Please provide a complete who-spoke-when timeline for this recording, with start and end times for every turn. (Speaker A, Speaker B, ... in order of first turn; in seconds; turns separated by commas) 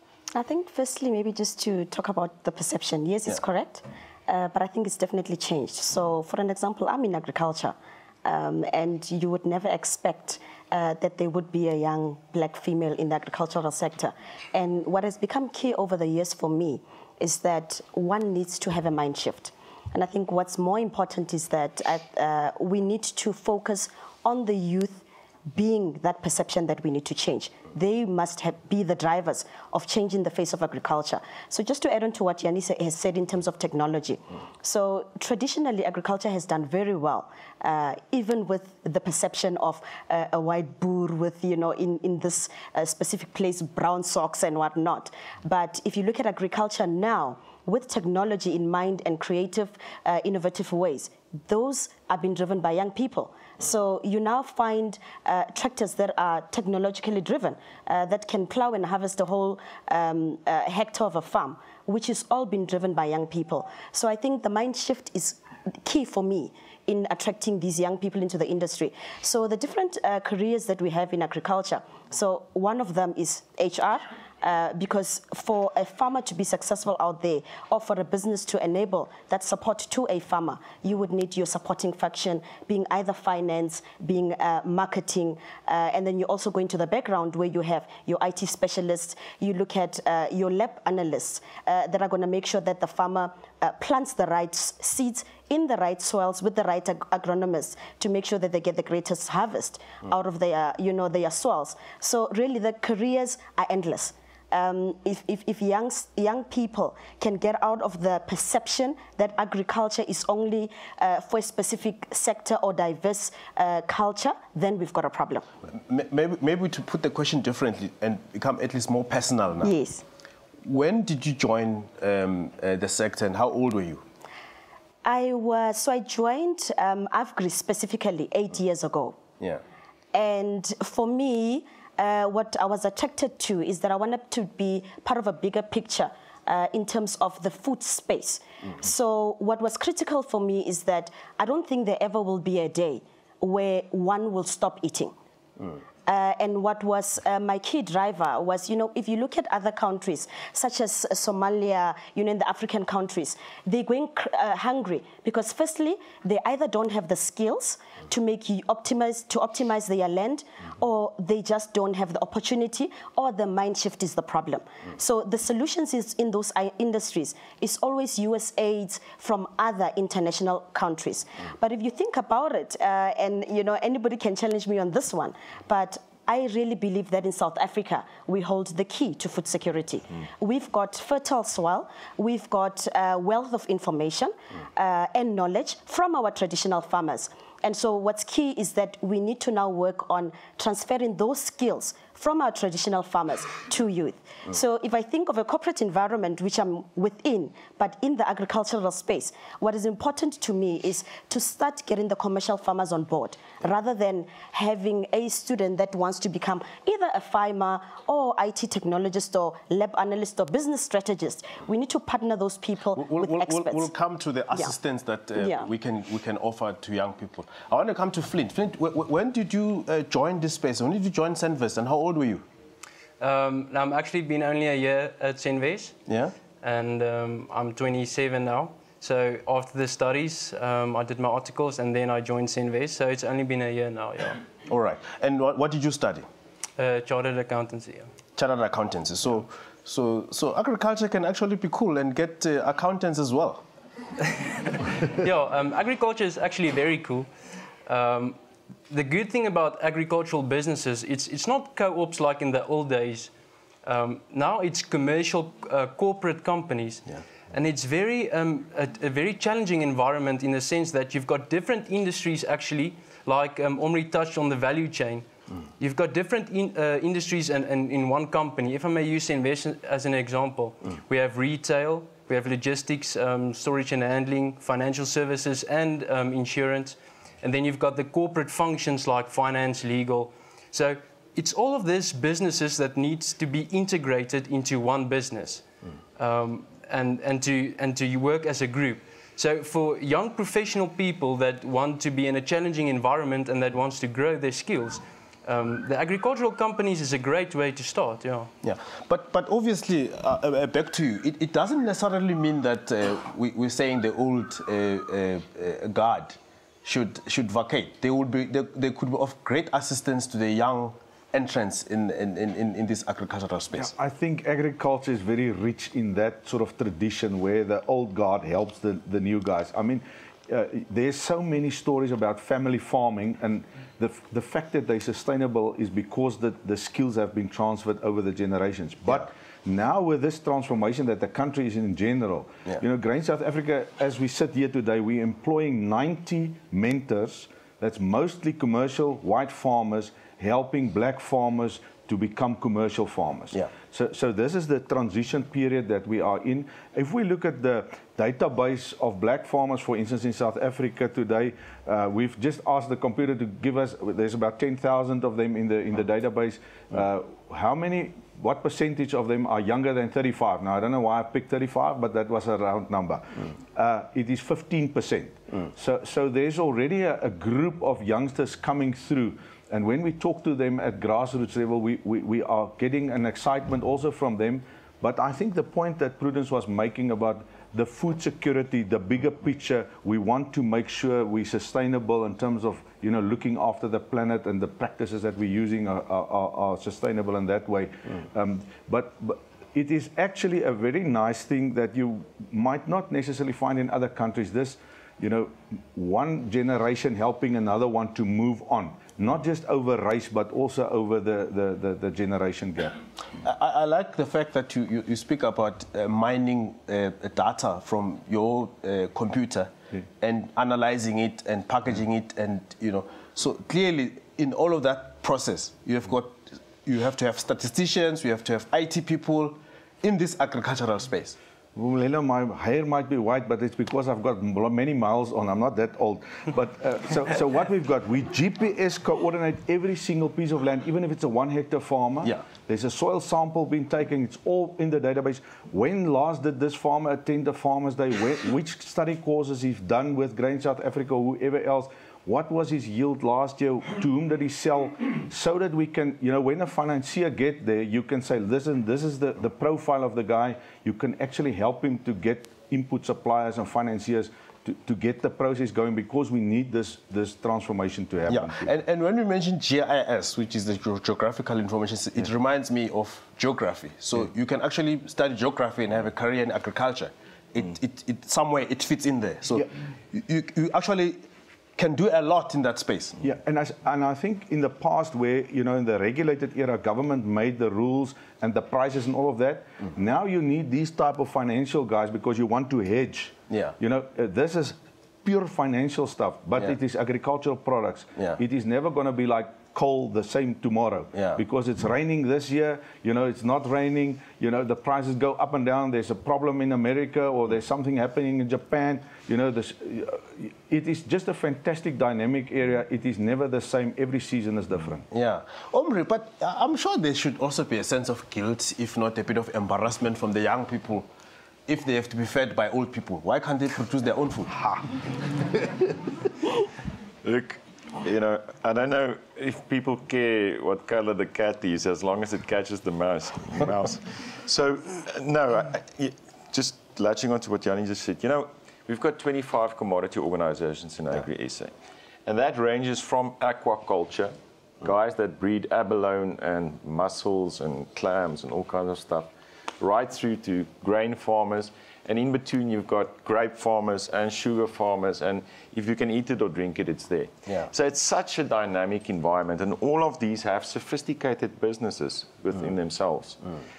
Speaker A: 0.3-115.5, Speaker B: 115.7-119.7, Speaker A: 119.6-120.0, Speaker B: 120.6-124.0, Speaker A: 125.0-129.2, Speaker A: 130.1-145.2, Speaker A: 146.1-213.9, Speaker B: 213.0-222.4, Speaker A: 215.4-215.7, Speaker C: 223.2-226.0, Speaker B: 226.1-226.3, Speaker C: 226.6-234.4, Speaker B: 234.7-236.3, Speaker C: 236.8-238.1, Speaker B: 238.4-243.7, Speaker C: 244.4-247.3, Speaker C: 247.9-248.4, Speaker C: 248.9-253.3, Speaker C: 253.8-265.3, Speaker C: 265.8-285.6, Speaker C: 286.2-298.5, Speaker B: 298.6-313.9, Speaker D: 313.8-403.0, Speaker B: 403.4-421.4, Speaker D: 421.8-458.7, Speaker B: 458.3-471.2, Speaker B: 471.8-473.2, Speaker D: 473.2-505.1, Speaker B: 483.5-483.8, Speaker B: 491.1-491.4, Speaker B: 505.1-511.1, Speaker B: 511.7-514.6, Speaker E: 517.2-531.7, Speaker E: 532.3-553.4